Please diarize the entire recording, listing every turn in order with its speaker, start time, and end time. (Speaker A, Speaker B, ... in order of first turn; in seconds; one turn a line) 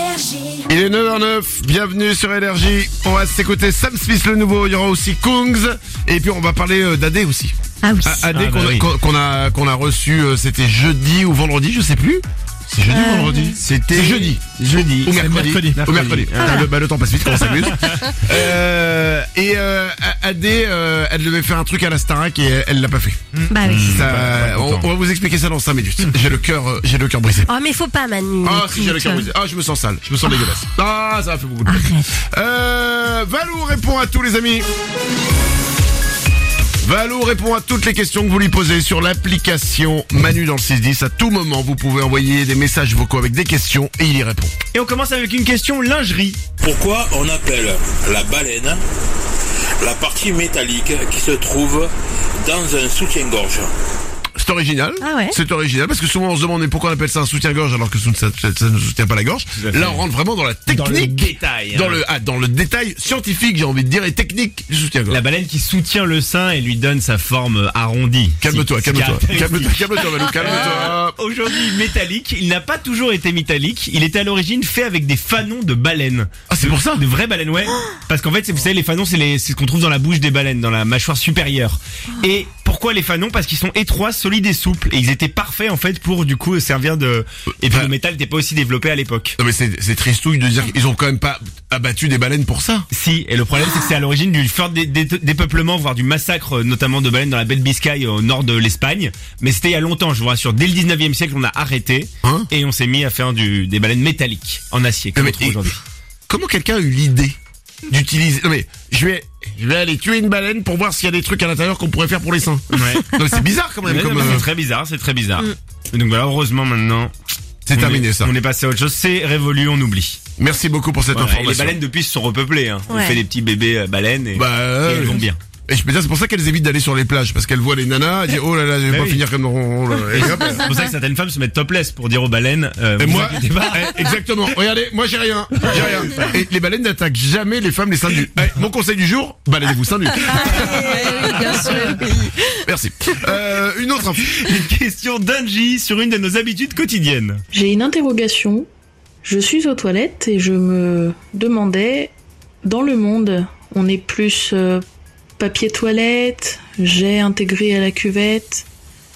Speaker A: 0.7-23.2
Speaker B: 7.8-8.3
Speaker C: 8.3-8.9
Speaker B: 12.9-13.6
Speaker C: 13.7-16.7
Speaker B: 23.5-24.0
Speaker C: 23.6-24.9
Speaker A: 23.7-27.5
Speaker B: 27.5-29.3
Speaker A: 28.4-34.7
Speaker B: 31.7-32.1
Speaker A: 36.8-44.5
Speaker C: 44.7-46.4
Speaker D: 46.6-48.8
Speaker D: 49.8-53.7
Speaker A: 54.4-65.2
Speaker B: 55.0-55.4
Speaker C: 59.6-60.0
Speaker C: 60.7-62.0
Speaker C: 65.1-89.4
Speaker A: 68.4-71.2
Speaker A: 76.5-77.0
Speaker A: 87.6-87.9
Speaker A: 89.4-92.9
Speaker C: 92.9-105.8
Speaker A: 102.2-102.5
Speaker A: 105.2-105.7
Speaker A: 106.3-107.4
Speaker A: 107.9-114.5
Speaker C: 112.7-113.1
Speaker C: 113.9-117.1
Speaker A: 117.7-118.3
Speaker C: 117.7-120.2
Speaker A: 120.4-121.8
Speaker C: 121.1-125.4
Speaker B: 122.9-123.2
Speaker A: 124.3-130.7
Speaker C: 128.9-129.2
Speaker C: 130.1-134.2
Speaker A: 133.0-141.0
Speaker C: 135.7-136.2
Speaker B: 140.2-142.4
Speaker C: 140.5-141.8
Speaker A: 142.5-144.3
Speaker C: 144.2-147.4
Speaker E: 147.5-148.7
Speaker E: 149.2-154.8
Speaker E: 155.4-158.7